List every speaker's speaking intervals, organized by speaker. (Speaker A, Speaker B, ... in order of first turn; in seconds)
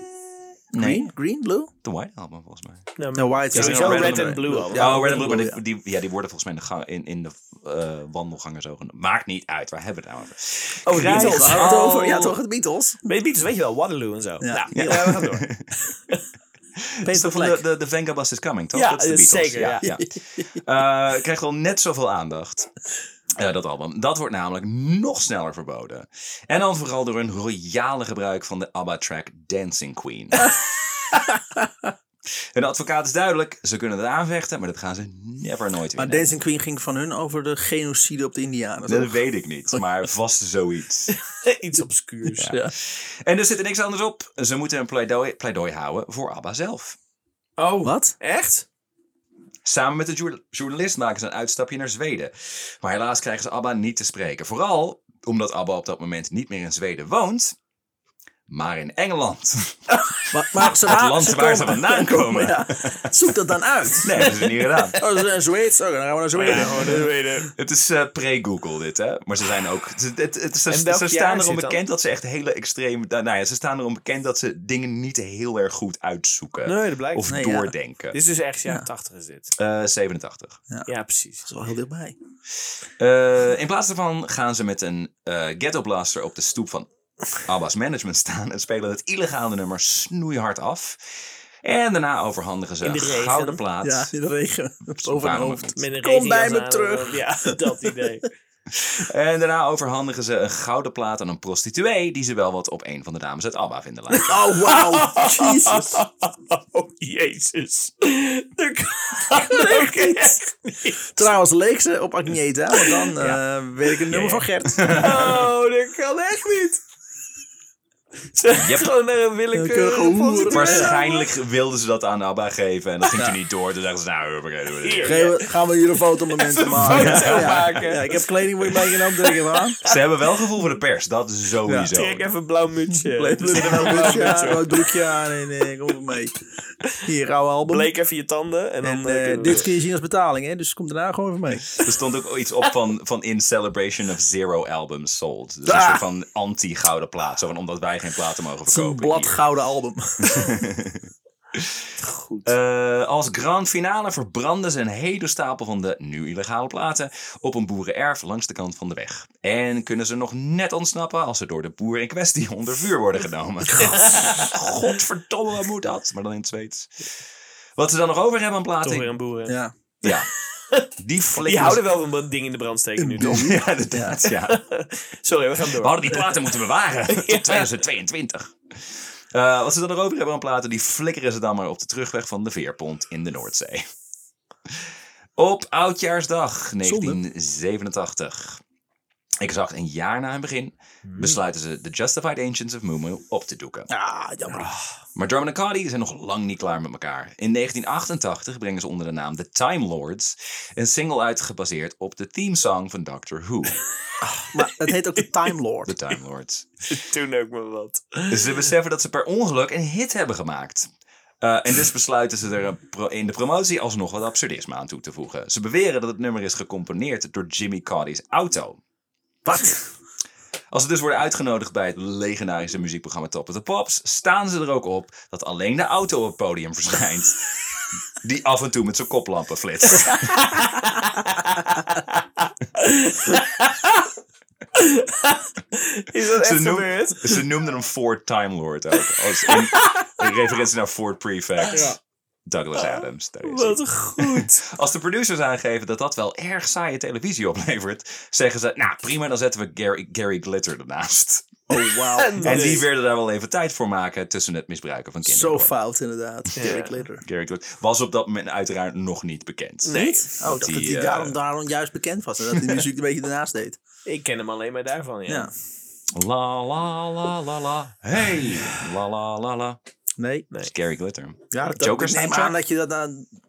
Speaker A: 0.7-1.7, 3.1-5.6, 11.0-13.1, 14.4-15.3, 17.0-17.6, 31.5-31.9, 36.0-39.2, 42.4-42.7, 47.8-48.1, 60.3-67.1, 77.3-77.7, 81.5-82.2, 93.8-98.0, 104.3-106.0, 109.3-110.4, 111.1-115.1, 119.5-121.0, 125.0-129.8, 131.7-131.9, 132.9-136.4, 136.9-137.9, 138.8-141.7, 145.7-146.0, 148.7-150.5, 169.5-169.7, 173.0-174.2, 186.8-187.2, 193.9-194.7, 204.2-205.9, 219.5-219.7, 241.7-242.0, 251.7-252.8, 255.2-257.2, 259.9-263.8, 265.3-265.5, 270.2-270.5, 271.5-273.3
Speaker B: 0.8-1.1, 1.8-2.9, 3.5-12.0, 14.7-15.7, 16.8-22.7, 23.4-30.5, 32.5-36.3, 38.9-41.2, 42.4-47.0, 49.6-57.5, 58.5-63.2, 64.0-65.0, 67.6-78.2, 79.6-80.6, 83.0-94.1, 95.0-95.8, 98.7-104.6, 114.8-115.4, 118.5-118.9, 120.5-125.2, 126.7-127.6, 129.8-132.3, 141.7-149.4, 150.3-151.8, 152.5-167.1, 167.8-169.1, 170.0-170.3, 171.0-171.8, 173.2-174.6, 175.8-183.8, 184.7-188.6, 189.4-193.9, 195.2-203.8, 205.8-207.0, 208.3-210.9, 211.4-218.8, 220.7-227.5, 228.2-230.6, 236.4-241.9, 242.5-251.6, 252.4-255.7, 257.2-261.4, 262.5-262.9, 266.1-269.8, 270.6-272.6
Speaker C: 3.0-5.2, 10.9-12.3, 13.1-15.4, 18.7-19.9, 41.1-42.5, 47.6-48.7, 64.2-64.9, 66.3-67.5, 70.7-71.8, 76.7-77.3, 78.1-79.5, 80.9-81.5, 92.8-93.6, 95.8-98.3, 104.2-111.1, 114.1-116.8, 118.3-121.3, 124.8-125.5, 126.4-130.0, 131.9-134.9, 137.7-139.7, 152.0-152.5, 163.8-164.6, 168.8-173.6, 174.3-176.6, 177.1-177.7, 191.1-191.4, 206.9-208.7, 229.9-234.1, 234.7-237.4, 239.0-240.2, 242.8-244.6, 252.1-252.8, 256.6-257.1, 259.9-260.8, 264.1-265.5